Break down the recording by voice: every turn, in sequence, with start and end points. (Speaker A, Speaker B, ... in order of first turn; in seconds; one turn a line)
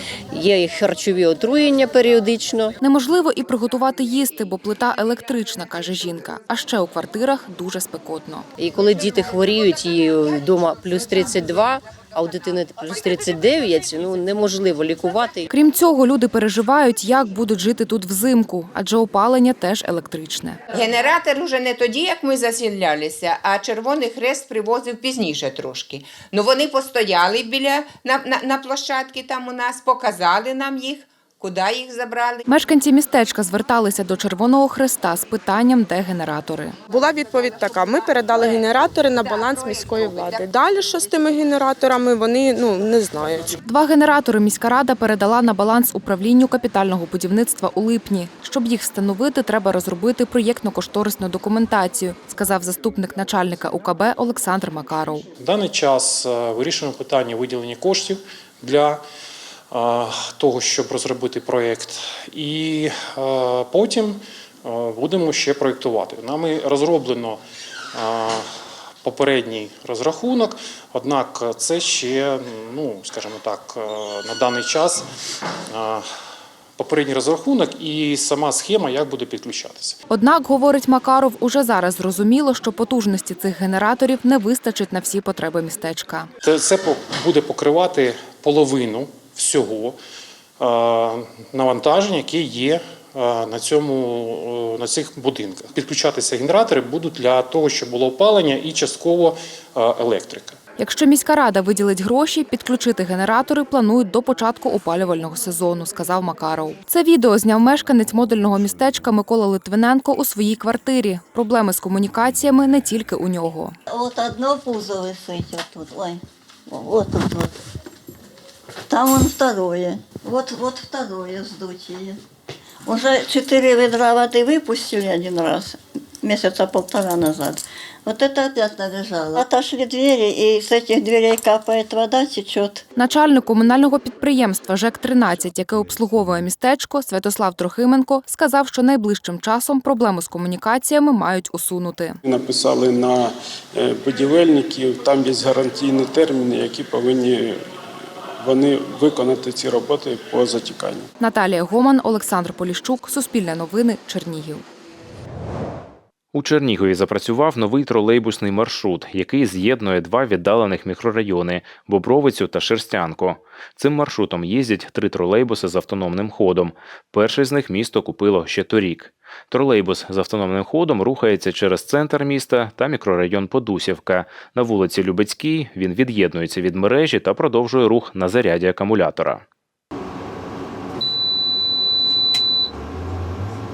Speaker A: 0.3-2.8
Speaker B: 2.8-8.5
Speaker A: 8.6-15.5
Speaker B: 15.5-20.6
Speaker C: 20.7-32.4
Speaker B: 32.5-36.8
Speaker D: 36.9-43.5
Speaker C: 38.4-41.3
Speaker B: 43.6-55.3
Speaker E: 55.4-59.0
Speaker E: 59.7-67.4
Speaker E: 68.0-68.5
Speaker E: 69.0-75.0
Speaker E: 75.7-76.0
Speaker E: 76.8-80.0
Speaker B: 80.1-86.3
Speaker E: 86.4-90.0
Speaker E: 90.6-100.6
Speaker B: 100.8-113.8
Speaker F: 113.9-117.5
Speaker F: 118.9-122.2
Speaker F: 122.9-132.8
Speaker B: 133.0-142.2
Speaker G: 142.2-147.6
Speaker G: 148.4-151.1
Speaker B: 151.2-154.6
Speaker H: 156.3-179.4